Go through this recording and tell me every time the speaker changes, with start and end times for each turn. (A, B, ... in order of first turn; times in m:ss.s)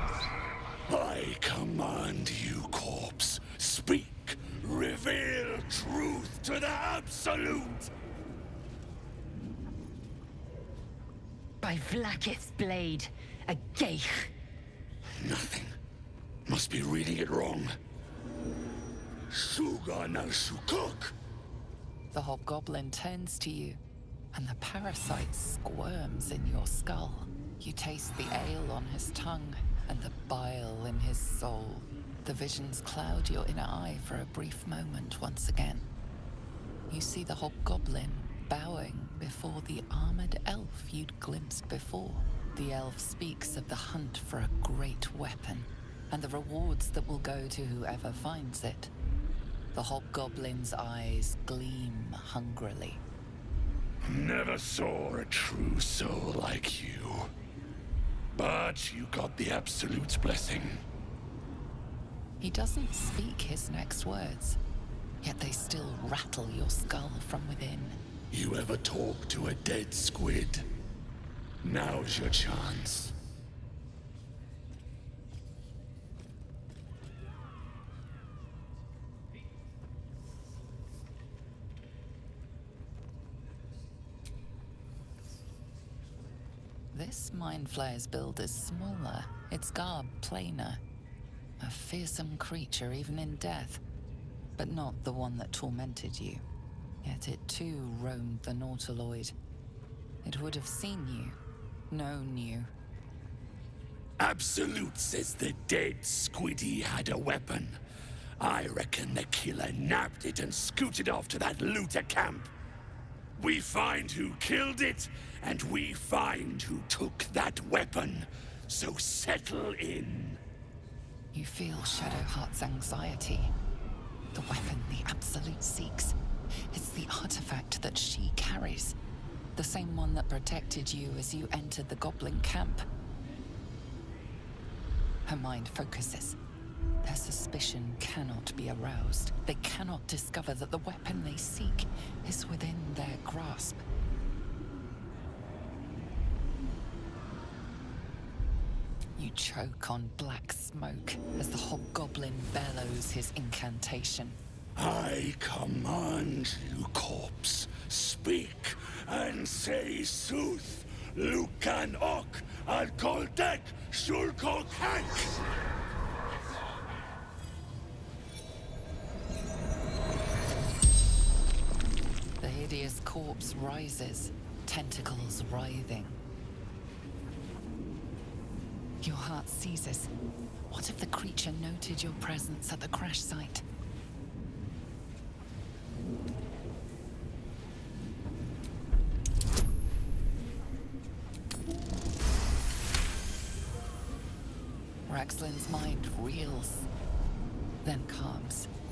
0:00.9-0:07.9 A
0:11.6-0:14.3 B
0:15.2-0:15.7 A
0:16.4-0:17.7 A
0:19.3-0:21.2 A
0:22.1-0:23.8 C
0:24.3-0:35.9 C
0:36.9-0:48.9 C
0:49.7-0:53.0 C
0:54.0-0:57.3 A
0:58.3-1:00.8 A
1:02.4-1:04.6 C
1:05.2-1:08.0 C
1:08.3-1:10.7 A
1:11.6-1:13.1 A
1:26.9-1:30.8 C
1:31.6-1:33.8 C
1:34.6-1:36.4 C
1:37.0-1:39.3 C
1:40.2-1:41.4 C
1:41.9-1:42.7 C
1:44.2-1:47.8 A
1:48.4-1:52.5 A
1:53.4-2:00.4 A
2:01.3-2:03.5 C
2:04.3-2:06.2 C
2:06.7-2:09.0 C
2:09.6-2:12.8 C
2:15.2-2:16.4 C
2:17.0-2:23.8 C
2:29.2-2:34.4 C
2:34.8-2:45.4 A
2:52.4-2:56.2 C
2:59.0-3:00.1 C
3:00.7-3:03.6 C
3:15.1-3:16.9 C
3:17.8-3:18.7 C